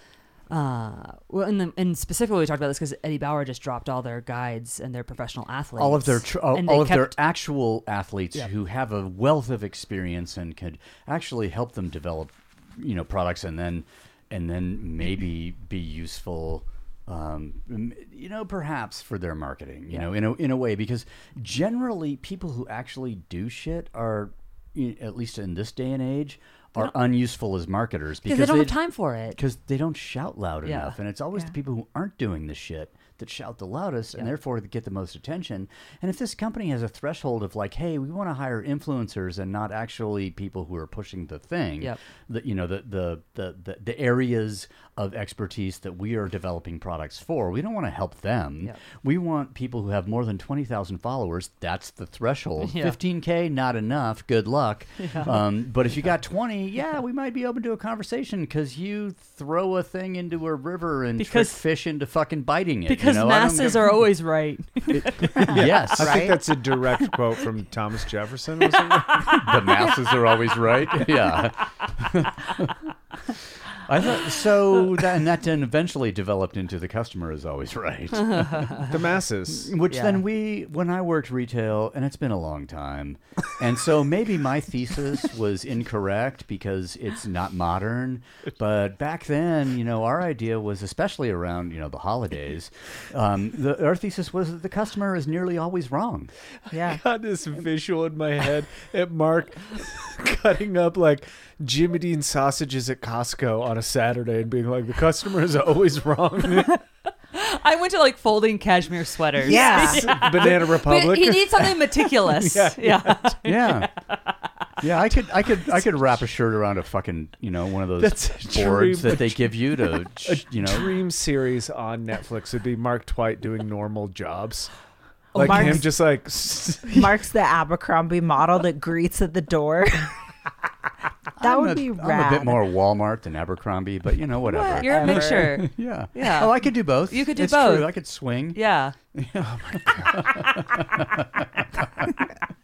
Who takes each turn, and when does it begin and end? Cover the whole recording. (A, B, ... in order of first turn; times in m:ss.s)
0:00.5-0:07.2 A
0:05.8-0:28.8 B
0:28.2-0:29.4 A
0:29.3-1:03.9 B
0:30.6-0:31.0 A
0:52.6-0:53.0 A
0:55.0-0:55.4 A
1:01.2-1:01.6 A
1:02.9-1:05.5 A
1:04.9-1:06.3 B
1:05.3-1:09.5 C
1:05.4-1:06.4 D
1:09.1-1:09.5 A
1:09.2-1:12.8 B
1:13.7-1:18.9 B
1:18.2-1:18.9 A
1:18.8-1:19.7 C
1:19.5-1:36.3 B
1:19.9-1:20.2 A
1:36.7-1:46.8 C
1:36.7-1:37.0 D
1:47.3-1:54.3 A
1:49.4-1:50.2 D
1:49.4-1:53.3 C
1:53.4-1:53.9 B
1:54.8-2:00.9 B
1:58.0-2:04.7 C
2:05.3-2:07.2 C
2:05.4-2:05.9 D
2:05.5-2:05.8 B
2:06.9-2:10.2 D
2:11.4-2:12.6 D
2:11.4-2:18.6 B
2:14.4-2:15.6 D
2:14.8-2:17.9 A
2:18.5-2:18.9 A
2:19.1-2:22.2 B
2:19.4-2:20.9 C